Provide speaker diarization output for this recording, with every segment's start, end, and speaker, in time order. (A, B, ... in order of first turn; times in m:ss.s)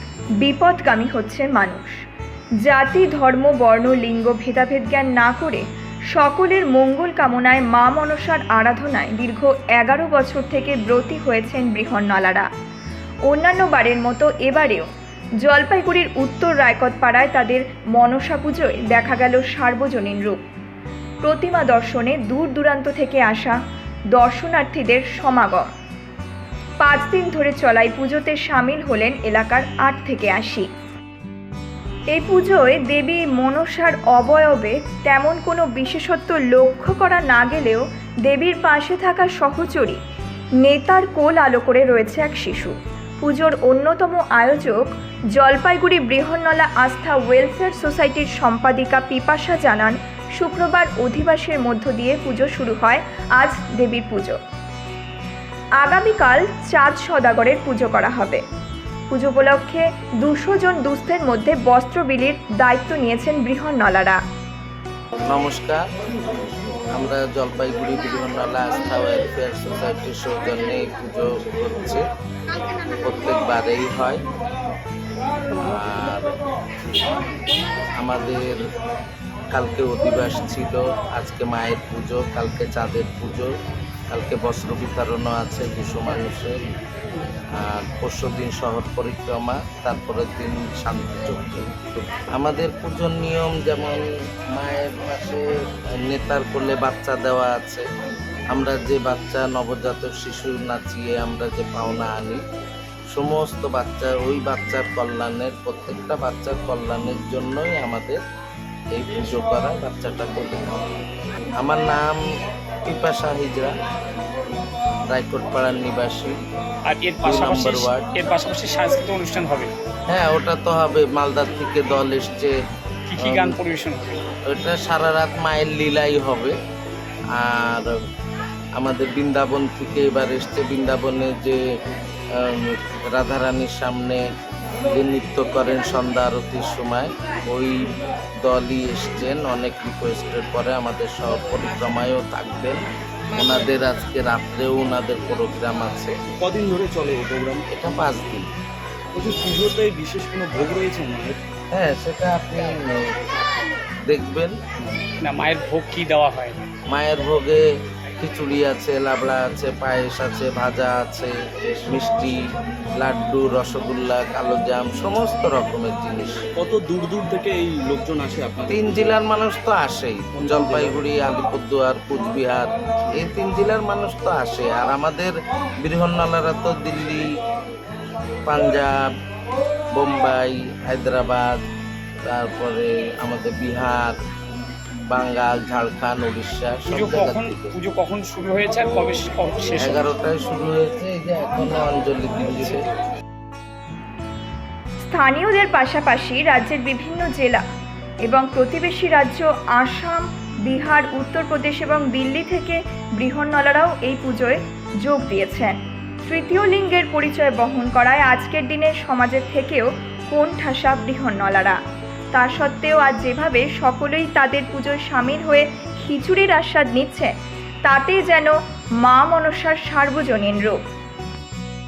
0:00.4-0:02.0 A
0:02.6-0:12.5 A
0:13.3-0:14.9 A
0:15.4-0:20.4 A
0:21.2-0:23.6 A
0:24.1-0:25.7 A
0:26.8-0:30.7 A
0:32.1-0:40.0 A
0:40.6-0:54.4 A
0:55.8-0:58.4 A
0:59.1-1:04.2 A
1:05.2-1:05.8 B
1:06.9-1:12.0 B
1:13.0-1:14.2 B
1:15.5-1:16.3 B
1:17.9-1:18.6 B
1:19.5-1:23.5 B
1:24.1-1:26.6 B
1:27.5-1:37.9 B
1:38.5-1:42.4 B
1:43.1-1:48.2 B
1:48.9-1:51.0 B
1:51.6-1:52.2 B
1:52.8-1:53.8 B
1:55.1-1:56.4 B
1:56.8-1:59.7 C
1:57.2-1:58.1 B
2:00.1-2:02.6 B
2:03.1-2:04.2 C
2:03.2-2:03.6 B
2:04.4-2:06.6 B
2:07.3-2:07.9 B
2:08.8-2:11.6 B
2:12.3-2:14.2 B
2:14.8-2:22.8 B
2:23.3-2:26.1 B
2:26.4-2:27.7 D
2:27.7-2:28.5 B
2:29.1-2:31.4 D
2:31.7-2:33.2 B
2:34.0-2:34.6 B
2:35.2-2:36.6 C
2:36.9-2:37.6 B
2:38.2-2:46.4 B
2:46.6-2:49.1 D
2:48.7-2:57.3 B
2:50.3-2:51.0 D
2:58.4-2:59.1 B
2:59.9-3:01.6 B
3:02.2-3:04.2 B
3:05.1-3:07.8 B
3:06.9-3:10.1 C
3:09.8-3:12.8 B
3:15.0-3:17.6 A
3:18.2-3:31.8 A
3:32.3-3:37.3 A
3:37.8-3:40.8 A